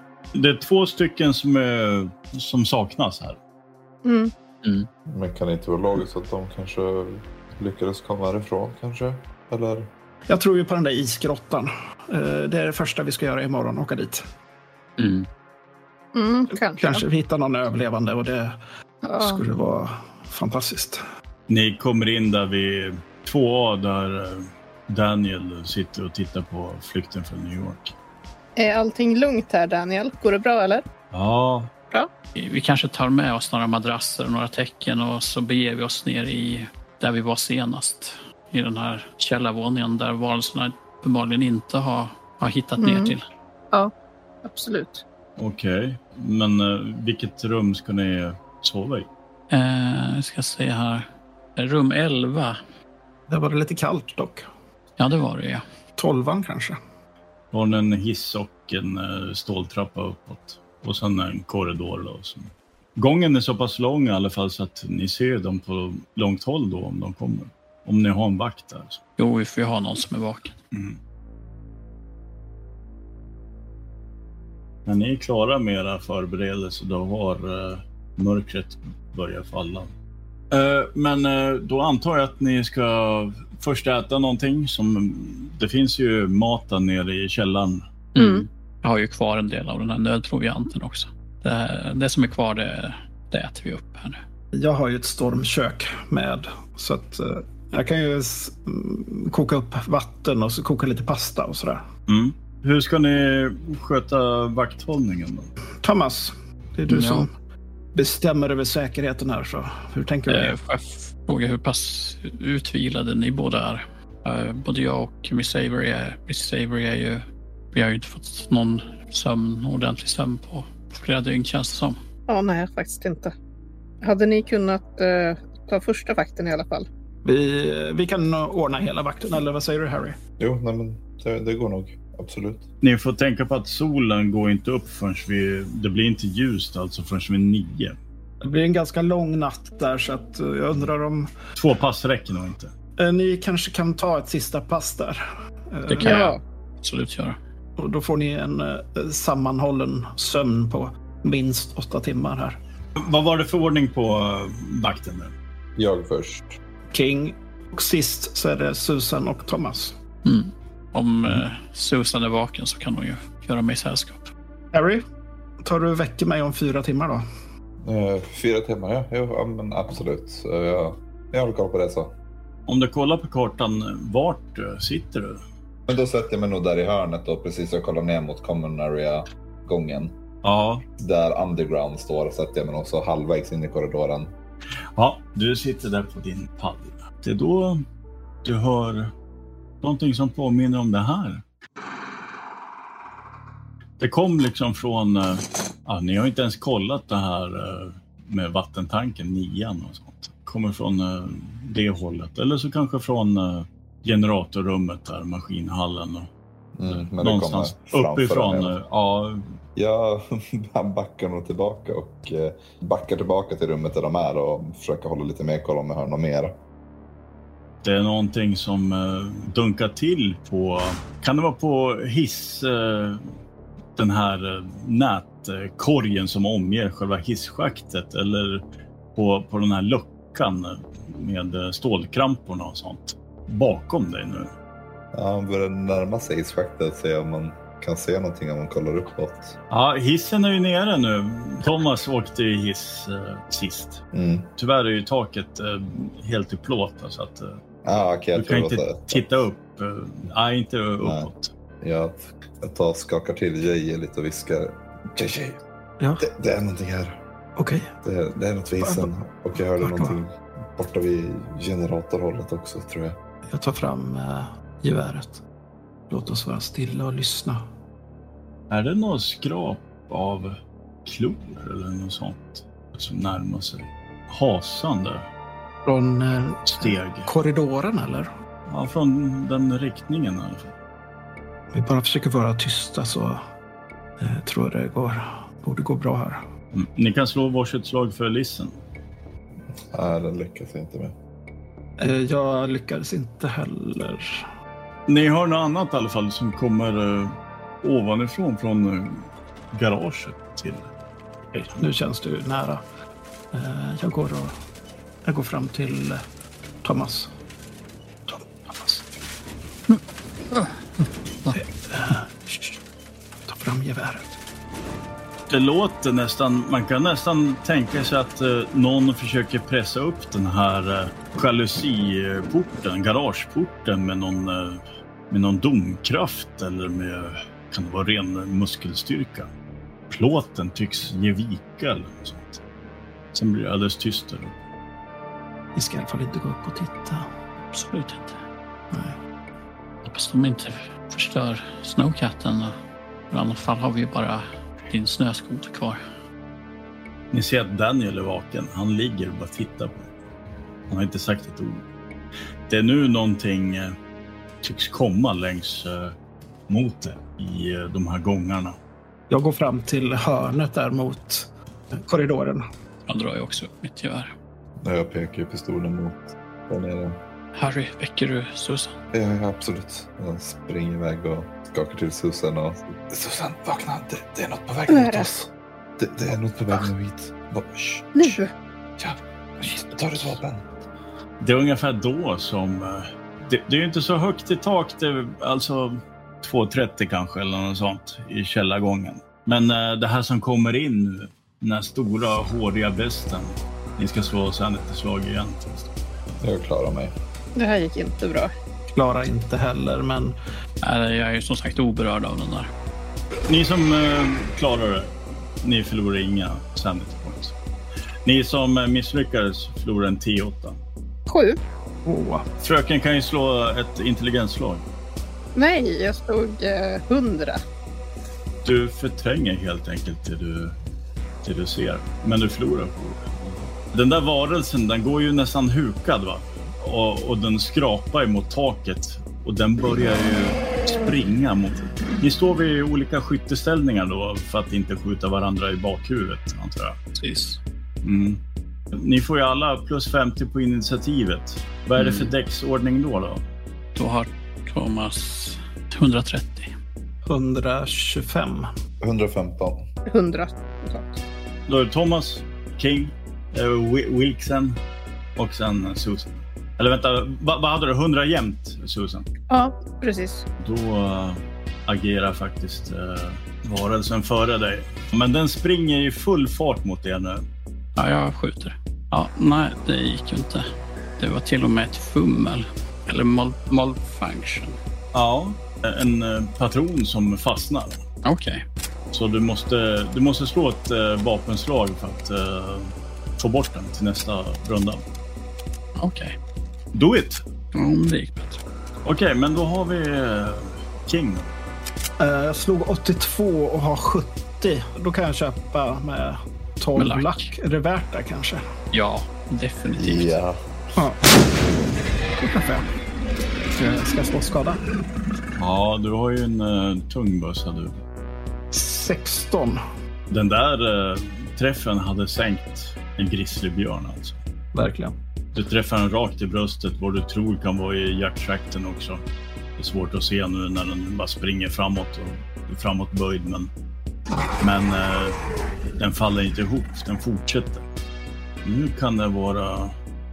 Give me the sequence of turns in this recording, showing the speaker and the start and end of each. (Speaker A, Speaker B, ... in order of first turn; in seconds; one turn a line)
Speaker A: 0.3-3.4
Speaker B: 4.0-4.3
Speaker C: 5.1-9.9
Speaker D: 10.3-14.2
Speaker E: 15.0-15.3
Speaker B: 16.1-17.0
Speaker D: 16.8-18.6
Speaker B: 19.0-19.4
Speaker D: 19.2-21.0
Speaker A: 21.5-27.9
Speaker B: 28.6-30.8
Speaker A: 31.1-31.7
Speaker E: 32.3-43.3
Speaker B: 42.8-43.1
Speaker B: 44.4-45.0
Speaker A: 45.4-49.1
Speaker E: 49.5-52.6
Speaker D: 53.3-54.5
Speaker E: 55.0-55.6
Speaker D: 56.0-56.8
Speaker A: 57.5-69.0
Speaker E: 69.2-70.5
Speaker A: 70.7-71.0
Speaker A: 74.9-79.9
Speaker A: 80.5-87.8
Speaker E: 88.1-94.2
Speaker B: 88.2-88.4
Speaker D: 94.5-101.8
Speaker A: 102.1-105.5
Speaker D: 105.8-107.3
Speaker E: 106.9-107.3
Speaker D: 107.9-110.6
Speaker E: 110.3-122.0
Speaker B: 122.3-123.3
Speaker B: 124.0-126.9
Speaker D: 127.2-130.2
Speaker C: 130.4-132.6
Speaker A: 132.8-138.0
Speaker D: 138.4-141.3
Speaker A: 141.6-142.7
Speaker D: 143.0-146.2
Speaker E: 145.9-147.4
Speaker B: 146.0-146.4
Speaker D: 147.8-152.6
Speaker A: 152.9-155.3
Speaker C: 155.8-156.5
Speaker D: 156.9-159.9
Speaker E: 160.2-164.3
Speaker D: 164.7-165.0
Speaker D: 165.6-167.2
Speaker C: 167.8-172.1
Speaker A: 172.7-175.4
Speaker C: 175.9-180.1
Speaker A: 180.4-180.8
Speaker C: 181.0-184.3
Speaker A: 184.9-187.8
Speaker A: 188.4-189.1
Speaker A: 189.8-191.4
Speaker A: 194.0-206.3
Speaker C: 206.8-208.7
Speaker A: 206.9-209.5
Speaker C: 209.8-216.6
Speaker A: 217.8-223.2
Speaker A: 223.9-228.6
Speaker A: 229.2-234.5
Speaker C: 235.1-239.6
Speaker A: 239.7-244.0
Speaker C: 244.1-244.5
Speaker A: 244.6-247.6
Speaker C: 247.8-249.2
Speaker A: 248.3-251.5
Speaker C: 251.0-251.3
Speaker C: 251.8-255.6
Speaker D: 256.0-256.2
Speaker C: 256.2-257.2
Speaker D: 257.6-257.9
Speaker C: 258.0-263.2
Speaker D: 258.8-259.1
Speaker D: 259.8-260.2
Speaker D: 263.5-265.4
Speaker D: 266.1-267.7
Speaker A: 268.7-275.3
Speaker D: 275.9-278.3
Speaker A: 276.7-277.3
Speaker A: 278.7-280.7
Speaker D: 281.7-283.4
Speaker D: 284.2-286.4
Speaker A: 286.7-288.7
Speaker C: 289.9-291.1
Speaker D: 292.0-294.4
Speaker A: 295.1-300.9
Speaker D: 301.5-302.8
Speaker D: 303.5-304.6
Speaker D: 305.2-306.2
Speaker D: 306.8-307.3
Speaker D: 308.3-309.1
Speaker D: 311.5-312.8
Speaker D: 313.5-314.4
Speaker A: 315.5-329.5
Speaker A: 330.1-332.6
Speaker A: 333.3-334.6
Speaker D: 335.7-337.3
Speaker E: 337.7-338.4
Speaker D: 338.9-339.1
Speaker E: 340.0-342.7
Speaker E: 343.3-346.0
Speaker A: 347.3-350.1
Speaker A: 350.9-351.8
Speaker A: 352.7-353.9
Speaker A: 354.6-356.1
Speaker A: 356.7-358.8
Speaker D: 359.3-362.6
Speaker E: 363.1-364.3
Speaker C: 364.8-367.2
Speaker E: 367.5-369.0
Speaker C: 369.1-378.4
Speaker B: 374.9-375.3
Speaker B: 378.2-378.5
Speaker C: 379.0-380.7
Speaker A: 381.4-395.9
Speaker C: 396.4-397.1
Speaker B: 397.6-398.5
Speaker D: 398.9-400.4
Speaker E: 400.8-402.7
Speaker A: 403.5-407.5
Speaker A: 408.2-410.8
Speaker B: 411.3-411.6
Speaker D: 412.1-412.5
Speaker A: 412.6-414.8
Speaker B: 415.6-417.6
Speaker A: 418.6-420.8
Speaker A: 421.4-437.0
Speaker E: 437.1-437.6
Speaker A: 438.0-438.4
Speaker A: 438.9-443.4
Speaker E: 442.0-442.3
Speaker E: 443.9-446.7
Speaker D: 447.3-448.7
Speaker C: 449.0-449.8
Speaker B: 450.1-451.2
Speaker A: 451.7-454.8
Speaker A: 455.4-459.3
Speaker B: 459.5-460.4
Speaker A: 460.6-467.4
Speaker E: 467.9-470.7
Speaker E: 471.2-474.8
Speaker A: 475.1-478.0
Speaker E: 478.2-478.6
Speaker A: 479.1-485.0
Speaker E: 486.0-486.3
Speaker A: 486.9-487.4
Speaker E: 487.7-488.6
Speaker A: 489.1-491.5
Speaker D: 492.2-498.6
Speaker E: 496.9-497.5
Speaker E: 498.9-500.4
Speaker C: 500.0-500.6
Speaker D: 501.0-501.3
Speaker D: 502.4-502.9
Speaker D: 503.7-504.8
Speaker A: 505.6-508.0
Speaker D: 508.7-509.8
Speaker A: 510.3-514.4
Speaker D: 514.7-515.1
Speaker A: 515.5-519.2
Speaker A: 519.8-523.7
Speaker A: 524.6-525.4
Speaker A: 526.0-527.8
Speaker A: 528.6-530.0